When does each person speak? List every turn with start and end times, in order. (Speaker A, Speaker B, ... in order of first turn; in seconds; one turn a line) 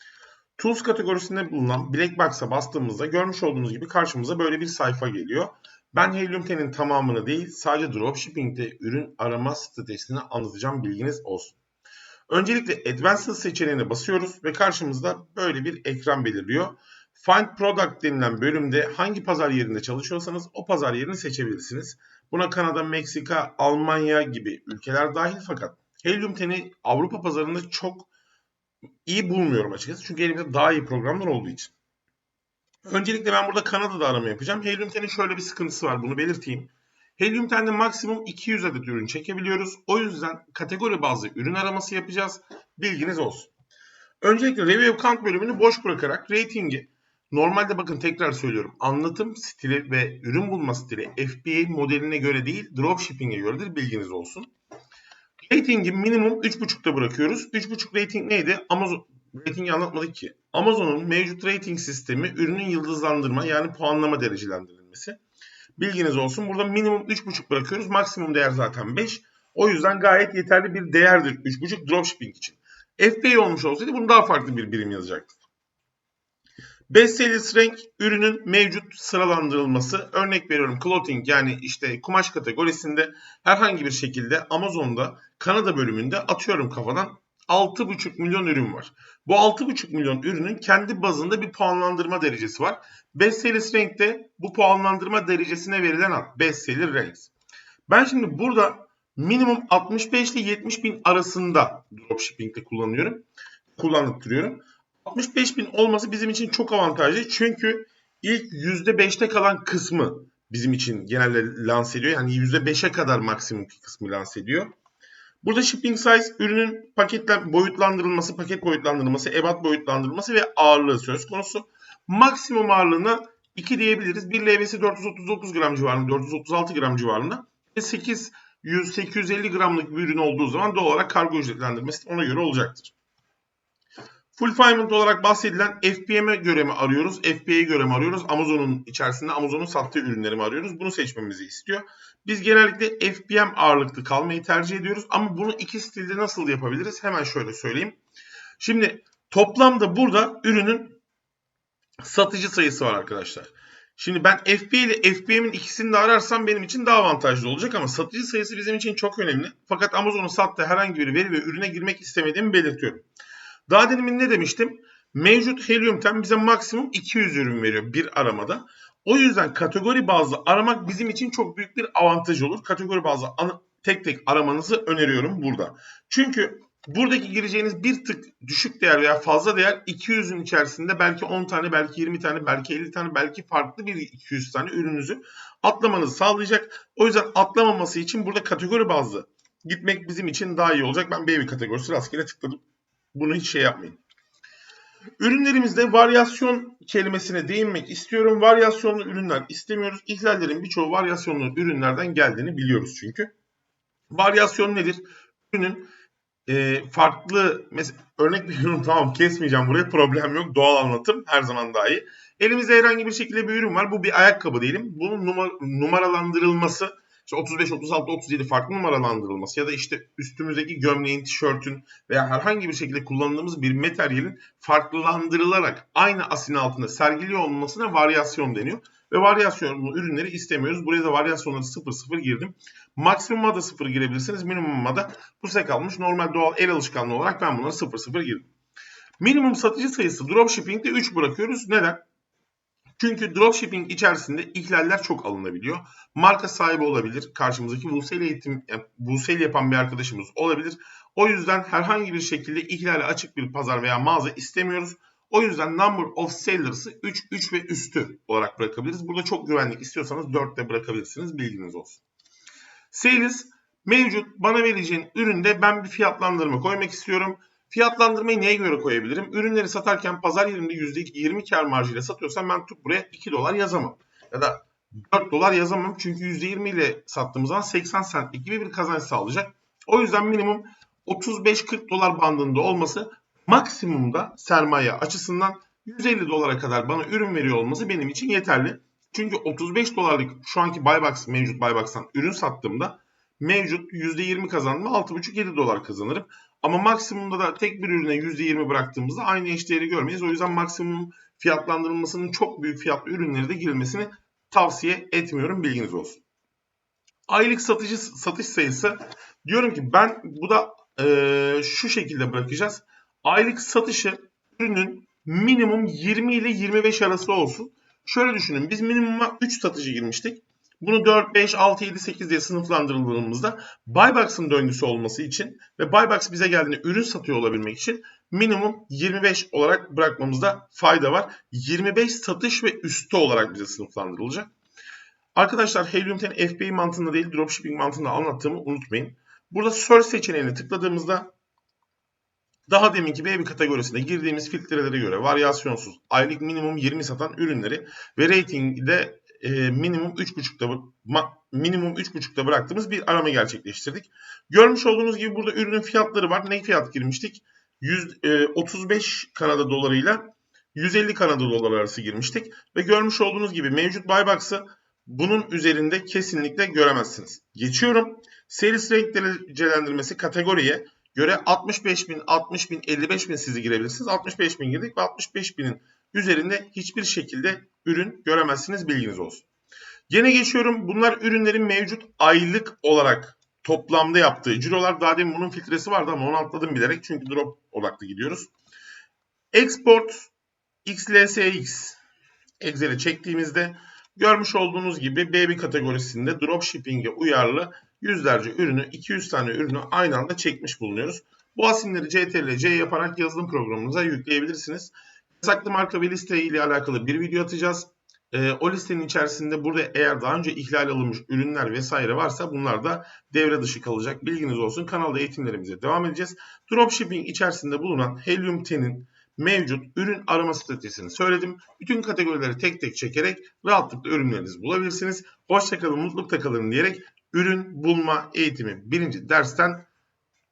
Speaker A: 0.6-11.6
Speaker A: 12.3-28.1
Speaker A: 29.1-31.7
Speaker A: 32.9-43.5
Speaker A: 44.2-54.5
Speaker A: 55.4-65.2
Speaker A: 65.8-75.4
Speaker A: 76.9-97.3
Speaker A: 97.9-103.2
Speaker A: 103.8-114.7
Speaker A: 115.4-132.9
Speaker A: 134.3-148.0
Speaker A: 148.6-151.0
Speaker A: 152.0-163.0
Speaker A: 163.7-192.6
Speaker A: 193.1-194.0
Speaker A: 195.2-203.3
Speaker A: 204.1-205.9
Speaker A: 206.5-238.5
Speaker A: 239.2-242.0
Speaker A: 243.0-262.0
Speaker A: 262.9-306.2
Speaker A: 307.3-334.5
Speaker A: 335.4-341.3
Speaker A: 342.7-379.4
Speaker A: 380.1-388.5
Speaker A: 389.5-390.3
Speaker A: 390.8-392.0
Speaker A: 392.6-429.9